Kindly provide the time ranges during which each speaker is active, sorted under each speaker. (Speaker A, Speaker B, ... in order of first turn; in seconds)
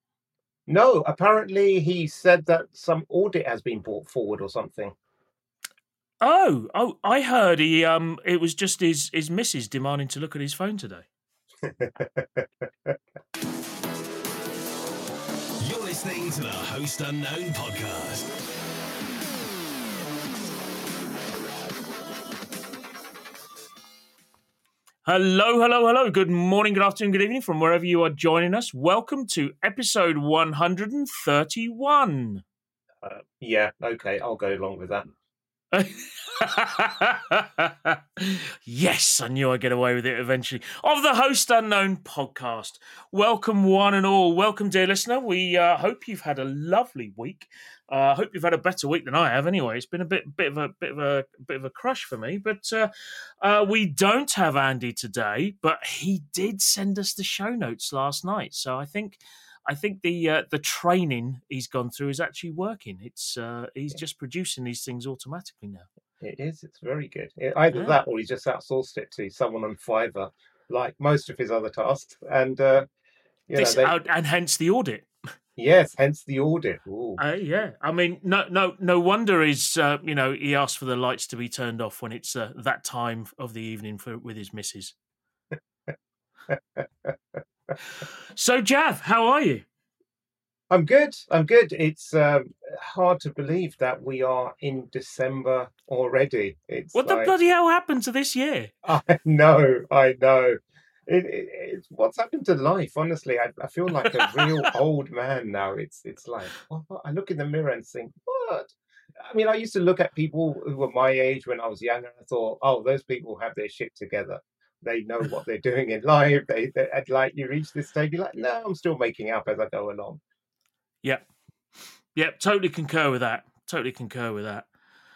Speaker A: 0.7-4.9, 11.6-13.0, 33.0-35.1, 66.2-72.9, 73.5-74.0, 75.6-77.2, 86.5-87.1, 90.7-97.3, 98.8-120.2
Speaker B: 6.2-11.1, 25.1-32.4, 35.7-65.9, 67.7-68.0, 73.5-75.1, 77.2-85.0, 88.0-89.7, 96.9-98.7, 104.2-104.7, 122.2-124.7
Speaker C: 15.6-18.3